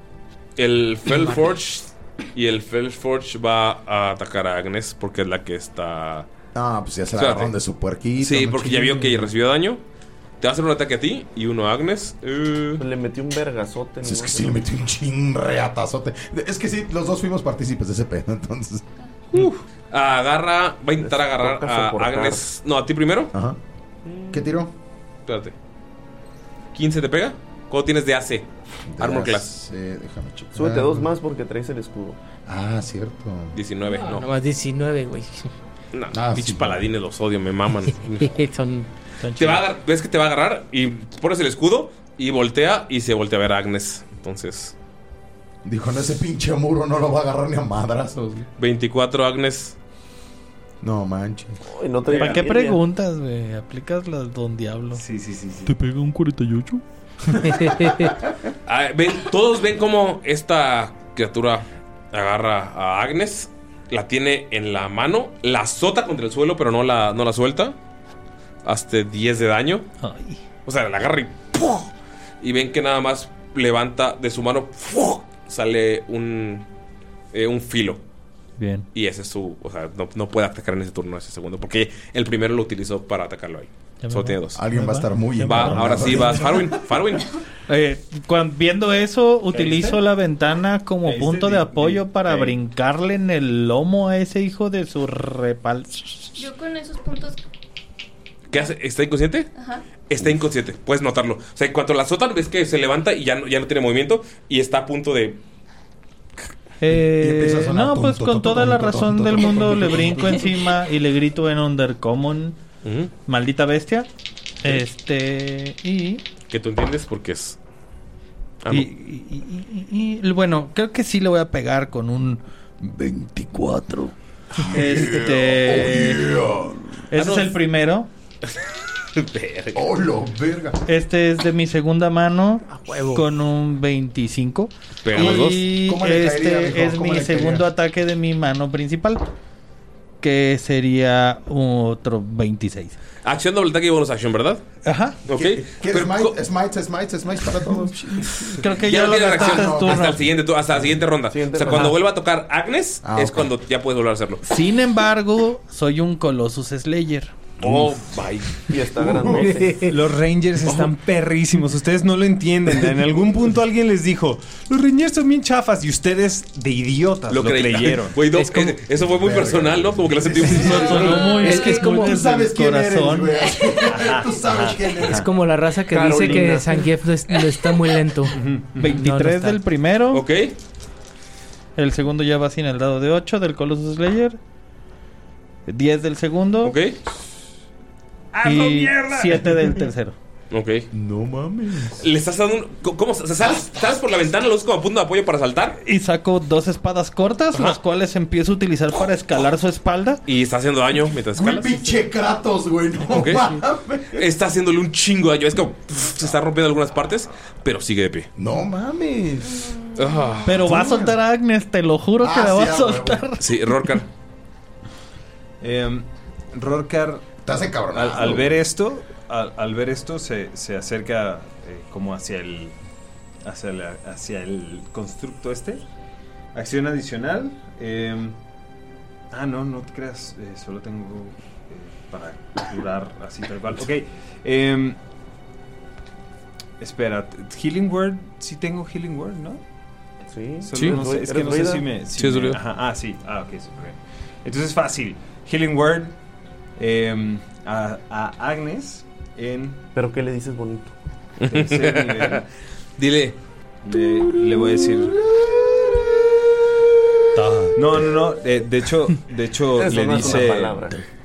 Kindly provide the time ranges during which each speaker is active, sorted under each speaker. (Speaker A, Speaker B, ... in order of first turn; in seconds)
Speaker A: 0.6-6.3, 7.2-7.5, 8.2-9.8, 10.4-12.8, 19.3-23.3, 25.3-25.5, 26.7-28.5, 29.0-29.5, 33.5-34.3, 35.9-38.3, 39.4-44.7, 48.6-49.8, 58.6-67.7, 68.6-69.8, 70.7-71.9, 72.4-76.7, 77.3-78.0, 78.9-84.6, 85.4-87.3, 98.5-99.5, 100.0-105.4, 112.8-113.1, 116.5-117.6, 118.6-118.9, 128.5-129.8, 135.0-135.6, 143.2-144.6, 145.2-146.3, 148.7-154.4, 157.6-158.7, 167.3-171.2, 180.1-180.5, 186.6-187.0, 190.5-190.9, 192.0-195.8, 197.5-197.8, 200.2-201.7, 203.1-203.6, 204.1-208.3, 209.9-210.8, 213.4-214.1, 242.2-242.6, 251.4-252.4, 253.0-253.4
Speaker B: 6.5-9.3, 14.0-18.8, 23.3-23.6, 24.3-24.7, 28.9-31.1, 32.5-33.6, 36.1-36.8, 45.6-48.5, 50.8-51.6, 84.5-87.0, 107.1-110.6, 124.6-126.8, 129.7-130.8, 135.1-137.7, 145.3-148.4, 149.3-150.2, 153.0-153.5, 157.6-157.9, 158.9-159.5, 169.1-175.2, 190.9-192.0, 201.3-204.2, 208.4-209.8, 210.6-211.2, 212.2-213.2, 217.4-218.5, 255.3-256.3
Speaker C: 12.8-14.6, 21.0-22.4, 30.5-32.2, 51.6-52.8, 151.3-152.0, 158.7-159.9, 175.9-176.9, 240.3-241.9, 249.9-250.9, 259.7-261.0
Speaker D: 33.9-35.5, 38.2-38.9, 57.4-58.2, 132.7-133.2, 168.3-168.8, 170.5-172.1, 175.0-179.6
Speaker E: 39.2-39.6, 52.1-55.0, 55.6-56.8, 70.0-70.4, 78.6-78.9, 84.0-86.4, 87.7-96.3, 106.8-112.6, 113.2-114.1, 114.6-116.2, 118.7-126.4, 127.1-128.1, 130.9-139.3, 140.2-143.0, 144.8-145.2, 148.4-150.2, 154.4-157.3, 170.5-173.4, 178.8-180.2, 181.8-184.4, 185.7-186.7, 188.4-190.2, 195.8-200.2, 210.4-213.4, 257.4-257.7
Speaker F: 52.1-52.5, 54.9-55.7, 89.5-90.0, 91.0-92.6, 159.8-168.2, 173.9-175.3, 178.3-179.0, 188.3-189.5, 215.6-217.3, 217.9-222.7, 223.4-225.8, 226.5-228.4, 229.3-235.0, 236.8-239.6, 240.6-246.1, 246.8-249.8, 251.5-252.4, 253.8-255.2, 257.4-260.9
Speaker G: 96.3-97.4, 99.5-99.8, 209.6-210.4